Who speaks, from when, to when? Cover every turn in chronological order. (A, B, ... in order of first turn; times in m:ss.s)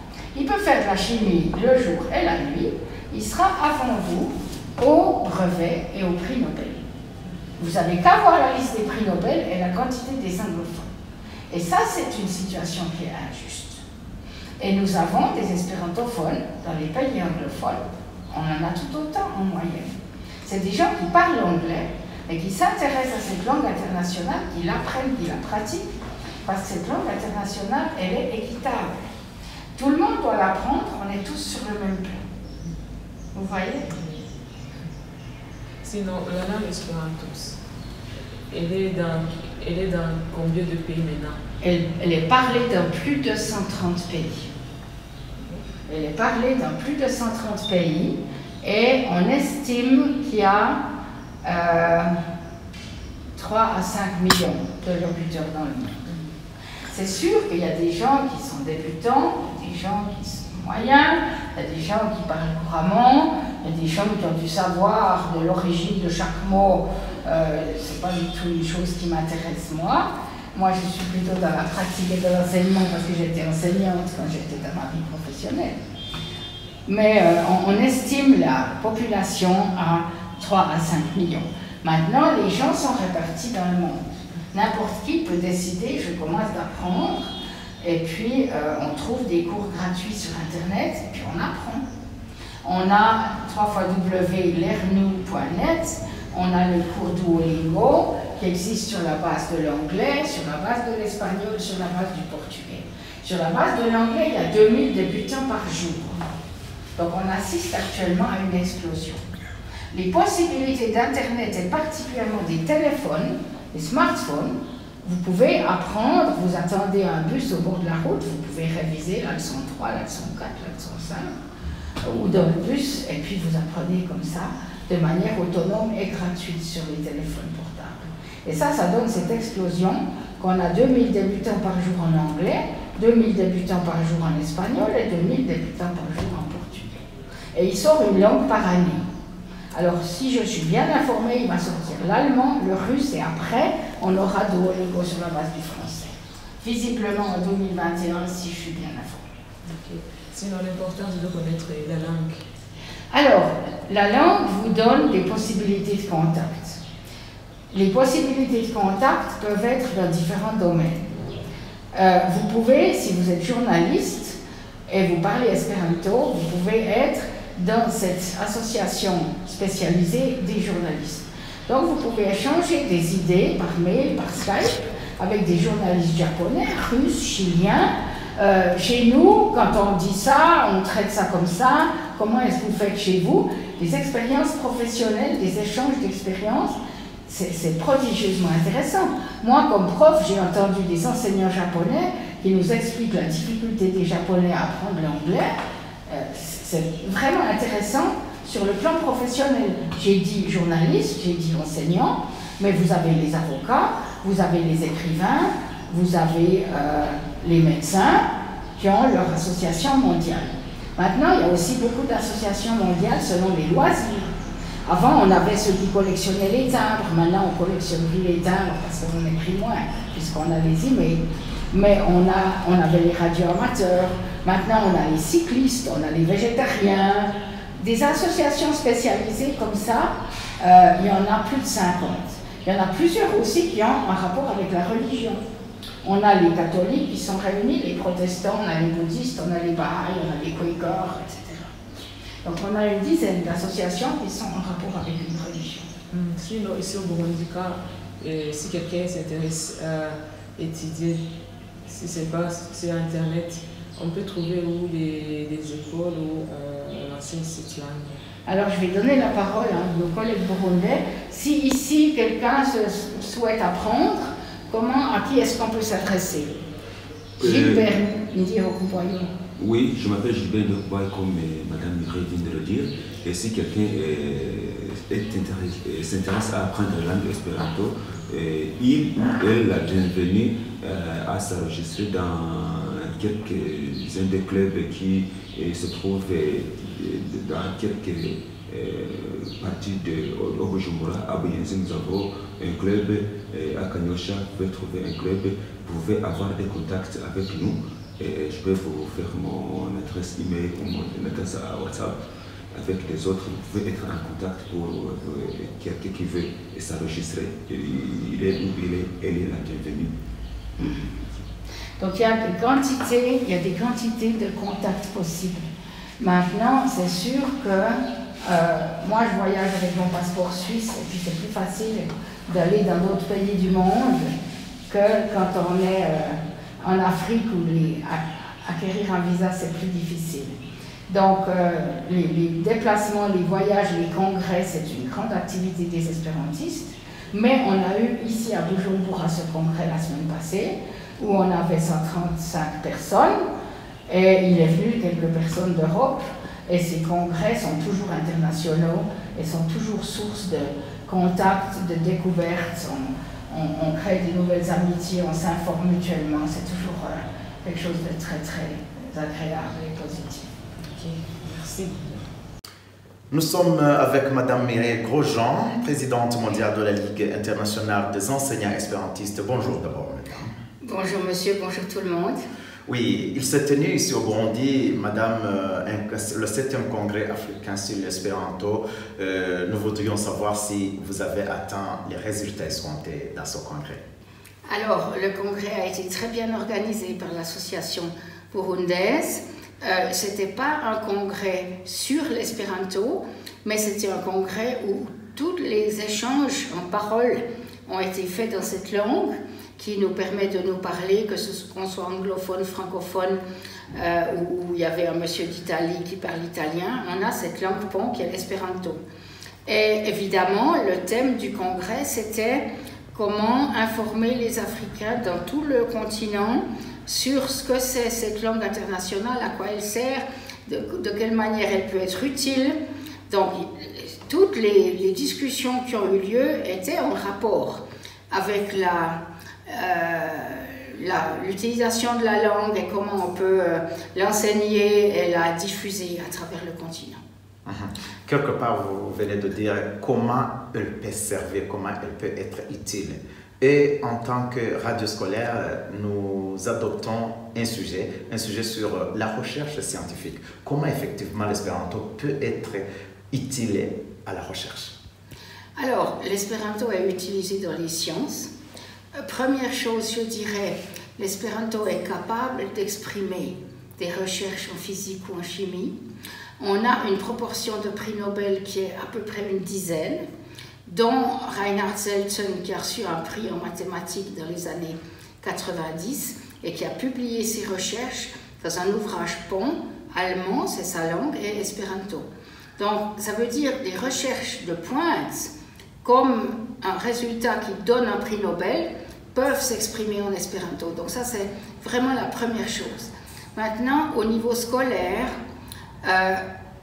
0:00.3-0:06.9 A
0:07.6-0:10.9 A
0:11.5-0:13.8 A
0:14.6-0:25.9 A
0:26.5-0:29.0 A
0:29.8-0:32.2 A
0:33.4-0:33.9 A
0:33.9-0:34.2 B
0:35.8-0:37.6 B
0:38.5-0:41.4 B
0:41.6-0:44.5 A
0:45.9-0:50.8 A
0:51.4-0:52.2 A
0:53.4-0:56.1 A
0:56.9-1:15.8 A
1:16.9-1:27.3 A
1:27.8-1:31.8 A
1:32.6-1:46.2 A
1:47.0-1:49.2 A
1:49.9-2:01.4 A
2:02.0-2:17.0 A
2:17.5-2:19.0 A
2:19.7-2:29.2 A
2:29.7-2:32.4 B
2:33.1-2:36.8 A
2:37.7-2:41.1 A
2:41.9-2:44.4 A
2:44.9-3:15.6 A
3:16.1-3:34.3 A
3:34.9-3:55.4 A
3:56.0-4:01.7 A
4:02.4-4:05.9 A
4:06.1-4:11.2 B
4:11.9-4:18.2 B
4:18.5-4:26.5 A
4:27.4-4:27.8 C
4:27.4-4:29.3 A
4:29.6-5:02.2 C
5:02.7-5:10.1 C
5:10.8-5:11.1 A
5:12.0-5:15.7 A
5:16.2-5:24.3 A
5:24.9-5:30.6 A
5:31.1-5:43.5 A
5:44.1-6:00.5 A
6:00.9-6:02.3 B
6:03.3-6:10.5 D
6:10.8-6:12.4 A
6:12.9-6:24.0 D
6:24.7-6:49.0 A
6:49.7-7:02.8 A
7:03.3-7:17.2 A
7:17.7-7:34.9 D
7:35.8-7:38.5 A
7:39.1-7:46.0 A
7:46.6-7:50.2 A
7:50.9-8:02.3 A
8:02.8-8:05.5 A
8:06.0-8:15.4 A
8:16.0-8:16.4 A